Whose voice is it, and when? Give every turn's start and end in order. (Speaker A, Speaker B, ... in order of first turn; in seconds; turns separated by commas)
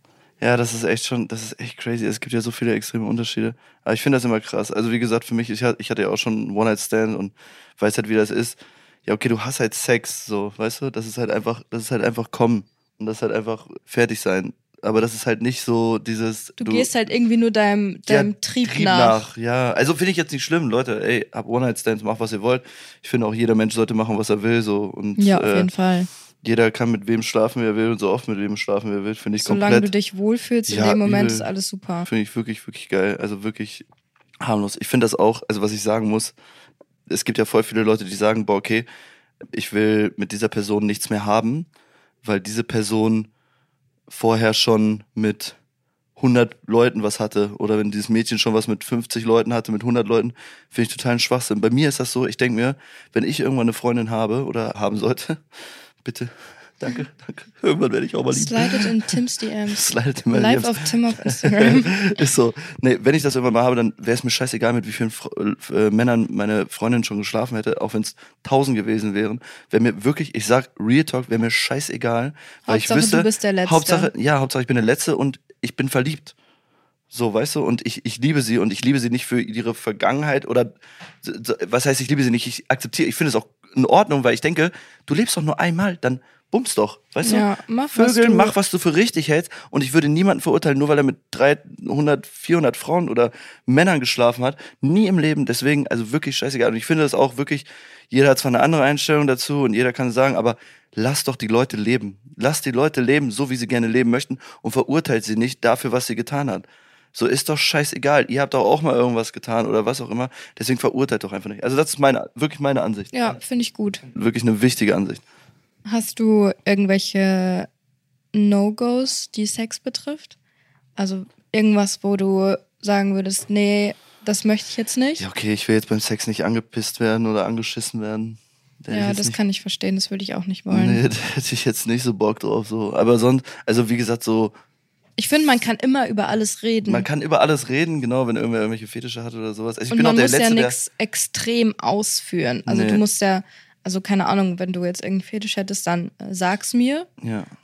Speaker A: 0.4-16.9, Speaker B: 16.6-19.2, Speaker A: 18.1-25.7, Speaker B: 25.2-26.1, Speaker A: 26.4-29.9, Speaker B: 29.4-32.1, Speaker A: 30.7-31.5, Speaker A: 32.0-33.8, Speaker A: 34.4-36.3, Speaker A: 37.1-38.9, Speaker A: 39.5-41.7, Speaker A: 42.2-43.3, Speaker A: 44.1-45.5, Speaker A: 46.2-55.4, Speaker A: 56.0-58.9, Speaker B: 58.3-62.0, Speaker A: 59.7-76.3, Speaker B: 72.7-74.1, Speaker A: 77.1-113.4, Speaker B: 87.2-88.5, Speaker B: 113.1-114.0, Speaker A: 114.1-115.2, Speaker B: 115.8-117.7, Speaker B: 118.3-120.3, Speaker B: 121.0-125.2, Speaker A: 125.2-129.4, Speaker B: 128.9-131.0, Speaker A: 130.7-134.5, Speaker B: 135.2-137.1, Speaker A: 136.8-140.8, Speaker B: 139.9-147.1, Speaker A: 142.7-143.0, Speaker A: 147.2-147.5